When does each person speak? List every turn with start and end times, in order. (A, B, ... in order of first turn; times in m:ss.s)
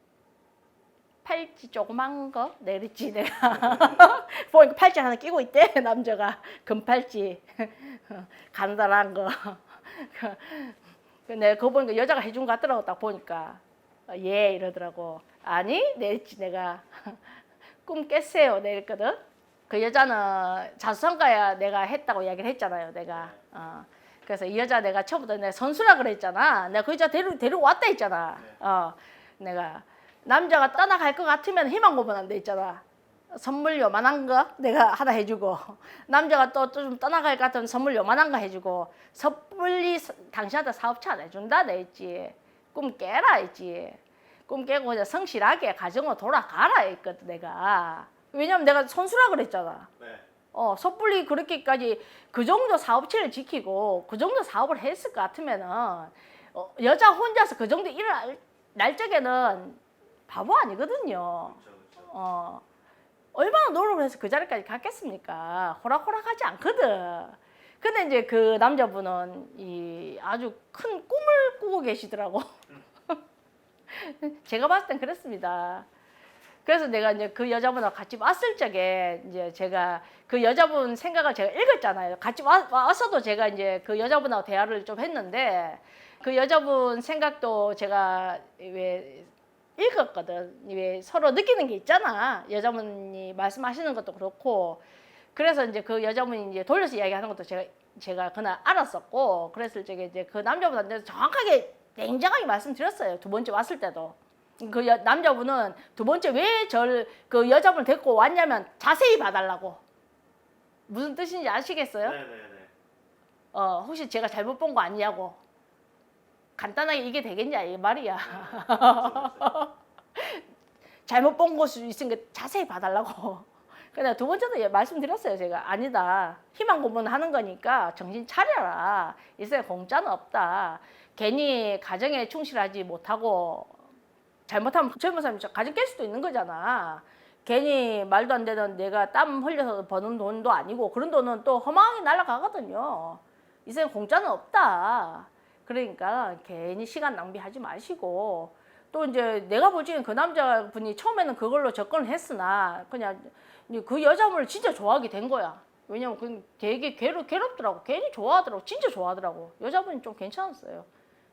0:01.2-0:17.2 A
0:17.8-0:49.9 A
0:50.5-1:02.6 A
1:01.5-1:02.1 B
1:03.3-1:12.5 A
1:13.9-1:15.9 A
1:16.6-1:34.8 A
1:35.3-1:49.8 A
1:50.9-1:52.2 A
1:52.0-1:52.7 B
1:53.5-1:55.4 A
1:56.6-2:00.4 A
1:58.2-1:59.5 B
2:01.0-2:13.8 A
2:14.5-2:40.9 A